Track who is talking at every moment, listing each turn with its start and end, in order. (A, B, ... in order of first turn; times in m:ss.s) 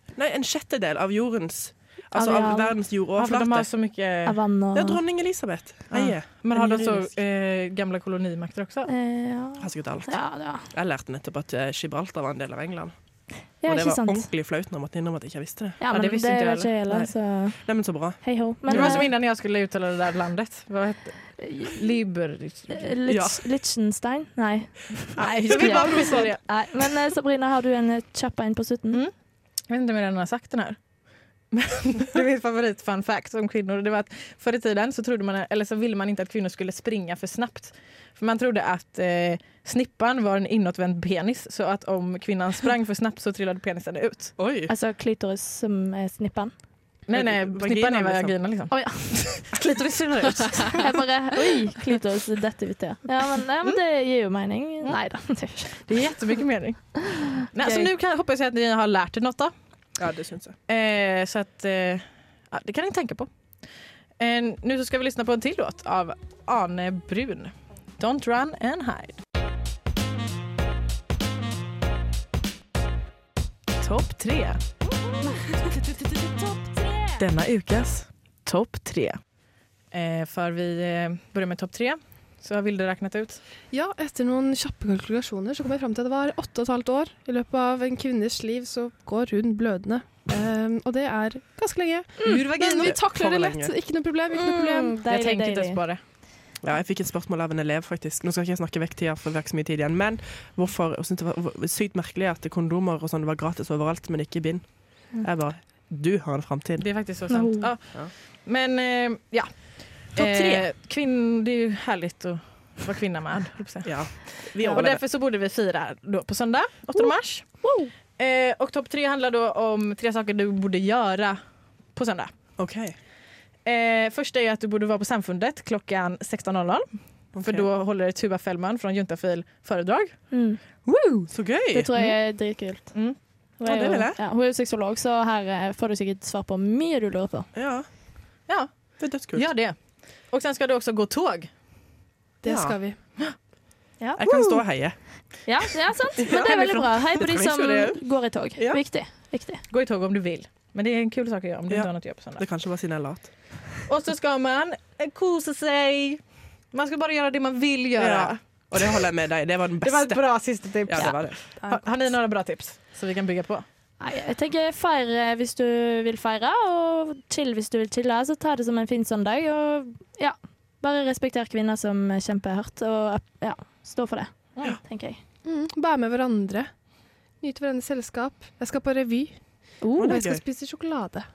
0:00.1-0:03.7 A
0:02.1-0:02.8 B
0:03.2-0:04.4 C
0:04.3-0:05.0 B
0:04.7-0:07.1 A
0:05.9-0:08.9 C
0:08.9-0:10.7 B
0:09.6-0:15.8 A
0:13.6-0:14.3 B
0:15.8-0:19.1 B
0:15.9-0:16.7 C
0:16.9-0:19.1 A
0:18.7-0:22.9 C
0:21.4-0:21.7 B
0:22.7-0:29.0 B
0:23.1-0:23.4 A
0:25.2-0:26.4 C
0:25.4-0:26.3 A
0:29.7-0:30.8 C
0:31.5-0:44.4 C
0:44.4-0:44.7 A
0:44.7-0:46.5 B
0:47.1-0:50.9 C
0:47.1-0:48.4 A
0:48.7-0:49.4 B
0:50.8-0:55.8 B
0:55.8-0:59.5 C
0:57.1-0:57.8 B
1:00.0-1:00.6 A
1:00.7-1:03.3 C
1:04.2-1:09.2 C
1:13.8-1:14.6 C
1:15.1-1:17.2 B
1:17.2-1:19.2 C
1:19.9-1:23.4 C
1:23.7-1:35.0 D
1:32.2-1:33.0 C
1:32.8-1:33.7 A
1:34.3-1:35.8 B
1:35.0-1:36.0 C
1:36.6-1:46.9 A
1:46.8-2:01.4 C
1:47.3-1:47.7 B
1:50.2-1:50.7 A
1:53.8-1:55.0 A
1:57.0-1:57.9 B
2:01.9-2:02.3 C
2:02.6-2:03.0 A
2:03.6-2:10.2 C
2:07.4-2:07.7 A
2:10.3-2:10.6 B
2:10.9-2:12.1 A
2:11.7-2:17.5 B
2:13.6-2:14.2 A
2:17.6-2:17.9 A
2:18.5-2:21.5 C
2:19.0-2:19.5 A
2:22.4-2:23.0 D
2:22.4-2:22.8 A
2:24.2-2:25.0 A
2:24.2-2:24.6 C
2:25.5-2:29.6 B
2:26.2-2:28.8 A
2:29.7-2:32.4 C
2:31.7-2:33.3 A
2:33.9-2:36.2 C
2:36.7-2:39.0 C
2:38.0-2:41.4 A
2:39.8-2:43.6 C
2:41.6-2:42.1 D
2:44.0-2:55.2 B
2:54.6-2:54.8 C
2:55.4-2:56.7 D
2:57.4-3:01.3 D
2:59.8-3:00.2 B
3:00.0-3:00.4 A